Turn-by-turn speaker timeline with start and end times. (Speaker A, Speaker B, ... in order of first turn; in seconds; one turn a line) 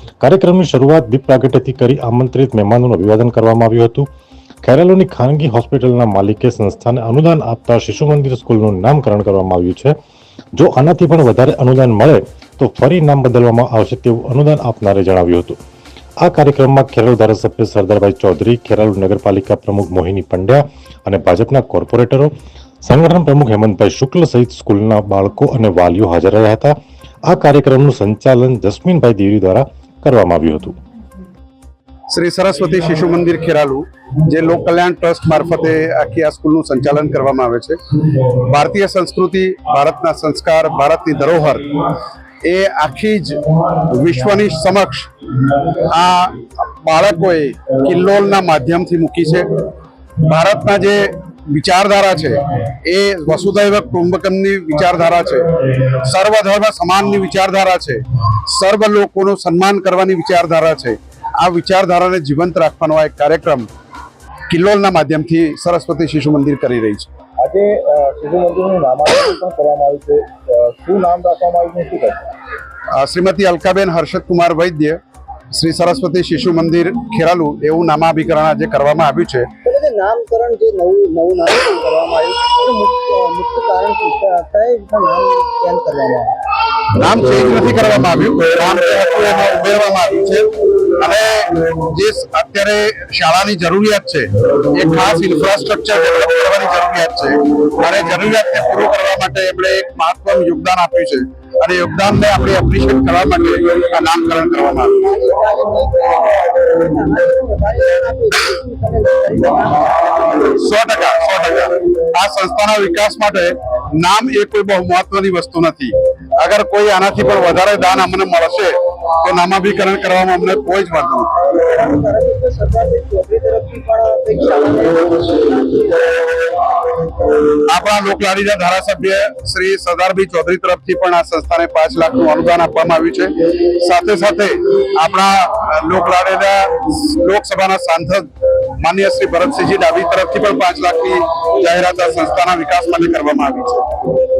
Speaker A: 0.2-4.1
Speaker A: 4.6-9.9
Speaker A: 10.5-15.6
Speaker A: 16.2-22.3
Speaker A: 22.8-30.8
Speaker B: 32.1-41.8
Speaker B: 42.4-45.1
Speaker B: 45.7-49.6
Speaker B: 50.2-63.7
Speaker B: 64.5-67.1
Speaker C: 67.4-72.3
Speaker B: 72.9-75.0
Speaker B: 75.5-79.5
Speaker D: 79.6-86.3
Speaker B: 87.0-104.9
Speaker D: 104.9-110.3
Speaker B: 110.5-121.3
Speaker D: 121.3-126.2
Speaker B: 127.6-138.3
Speaker B: 138.8-143.8